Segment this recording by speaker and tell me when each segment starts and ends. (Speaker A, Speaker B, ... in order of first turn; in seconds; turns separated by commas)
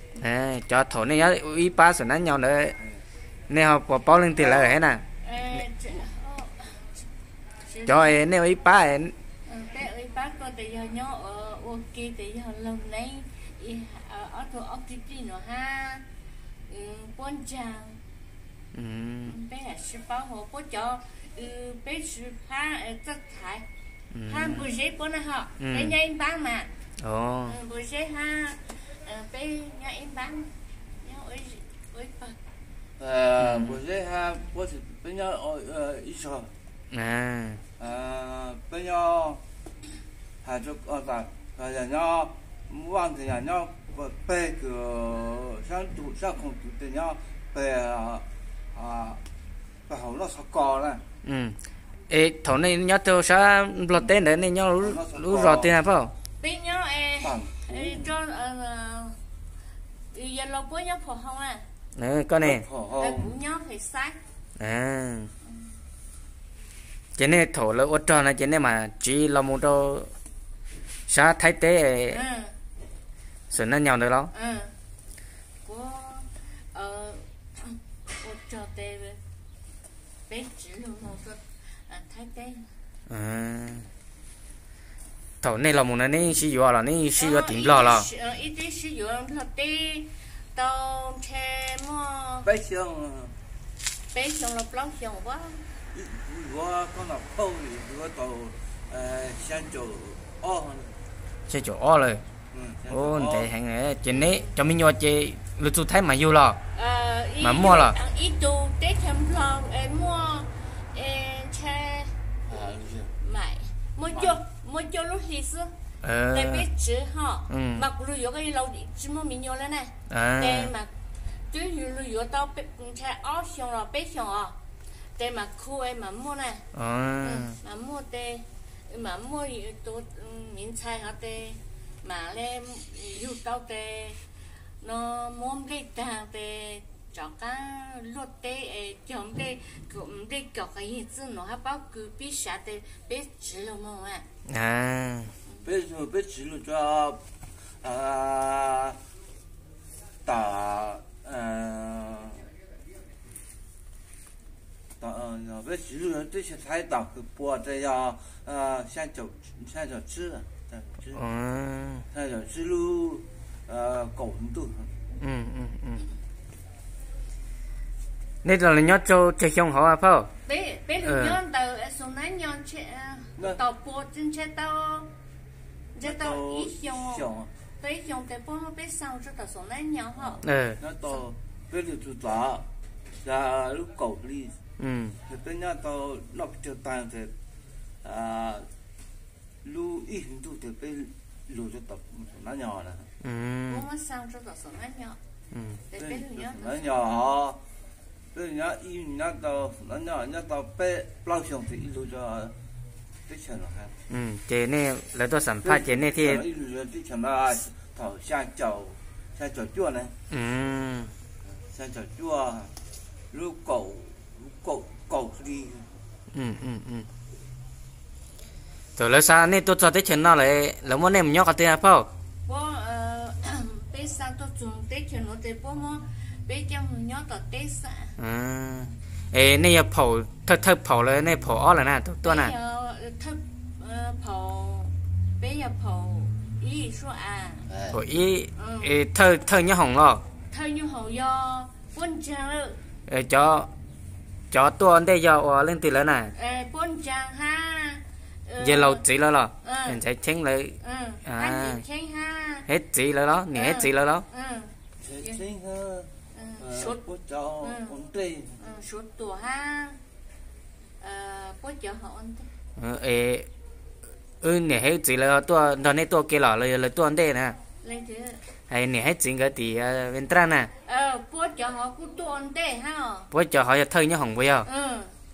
Speaker A: 0.2-2.8, Speaker A: 3.5-5.0, Speaker B: 4.3-4.8, Speaker C: 5.2-7.0, Speaker C: 7.6-8.2, Speaker A: 7.8-9.1, Speaker C: 9.4-16.0, Speaker C: 16.7-18.0, Speaker A: 18.7-19.3, Speaker C: 19.2-23.6, Speaker A: 24.1-24.6, Speaker C: 24.2-26.7, Speaker A: 25.6-25.9, Speaker A: 27.0-27.6, Speaker C: 27.4-32.4, Speaker B: 33.0-36.5, Speaker A: 33.4-33.8, Speaker A: 36.9-37.6, Speaker B: 37.8-39.4, Speaker B: 40.4-49.2, Speaker B: 49.9-51.0, Speaker A: 51.2-51.6, Speaker A: 52.1-56.1, Speaker B: 54.8-55.7, Speaker C: 56.4-59.2, Speaker B: 57.2-58.1, Speaker C: 60.1-61.6, Speaker A: 62.0-62.6, Speaker B: 62.4-63.3, Speaker C: 63.0-64.2, Speaker A: 64.6-65.3, Speaker A: 67.2-70.1, Speaker A: 71.1-72.2, Speaker C: 72.1-72.5, Speaker A: 73.5-74.3, Speaker C: 74.3-74.7, Speaker C: 75.6-79.2, Speaker C: 80.3-82.7, Speaker A: 83.1-83.9, Speaker A: 85.4-88.1, Speaker C: 87.2-92.5, Speaker B: 92.4-93.3, Speaker C: 94.1-95.6, Speaker B: 95.9-100.9, Speaker A: 101.5-102.2, Speaker B: 102.5-103.5, Speaker A: 102.9-106.6, Speaker C: 104.1-104.5, Speaker C: 106.7-112.2, Speaker A: 107.4-108.0, Speaker B: 112.5-113.1, Speaker C: 113.2-115.7, Speaker B: 114.1-114.4, Speaker A: 116.0-116.7, Speaker C: 116.3-120.9, Speaker A: 117.5-117.9, Speaker A: 120.1-120.7, Speaker C: 121.5-124.5, Speaker C: 125.2-126.6, Speaker A: 126.7-127.5, Speaker C: 127.2-134.2, Speaker C: 134.8-144.2, Speaker A: 144.4-145.3, Speaker B: 145.6-147.2, Speaker B: 147.8-149.0, Speaker B: 150.2-152.5, Speaker B: 155.0-161.2, Speaker A: 161.1-162.1, Speaker B: 162.1-164.9, Speaker A: 165.2-166.0, Speaker A: 168.4-170.3, Speaker C: 170.4-175.1, Speaker A: 171.0-171.4, Speaker C: 175.9-177.3, Speaker B: 176.0-177.5, Speaker C: 177.8-180.4, Speaker B: 180.2-182.7, Speaker A: 180.4-180.8, Speaker B: 183.2-184.6, Speaker A: 184.8-185.2, Speaker B: 185.2-187.3, Speaker B: 188.0-188.7, Speaker B: 189.6-193.1, Speaker A: 193.2-193.8, Speaker C: 193.7-195.2, Speaker A: 195.5-195.8, Speaker C: 195.9-196.8, Speaker B: 195.9-197.6, Speaker B: 198.3-202.5, Speaker B: 203.3-203.9, Speaker A: 204.1-206.4, Speaker B: 205.6-210.1, Speaker A: 210.3-211.1, Speaker B: 211.6-212.7, Speaker B: 213.3-215.9, Speaker A: 216.3-217.1, Speaker A: 219.0-222.1, Speaker C: 222.4-228.2, Speaker A: 228.2-232.5, Speaker C: 232.2-237.7, Speaker B: 237.7-238.0, Speaker A: 237.9-240.2, Speaker C: 238.6-238.9, Speaker C: 240.5-242.8, Speaker A: 243.1-243.7, Speaker A: 244.5-246.3, Speaker C: 246.3-249.0, Speaker A: 248.6-251.8, Speaker C: 249.6-250.0, Speaker C: 250.8-252.7, Speaker A: 252.7-254.2, Speaker C: 253.5-255.4, Speaker B: 255.0-258.6, Speaker C: 256.3-257.0, Speaker C: 257.6-257.9, Speaker C: 258.6-260.0, Speaker C: 261.0-262.5, Speaker A: 262.8-263.5, Speaker A: 264.4-267.6, Speaker C: 267.8-268.4, Speaker A: 268.7-270.7, Speaker C: 270.8-273.3, Speaker A: 273.3-274.7, Speaker C: 274.6-275.1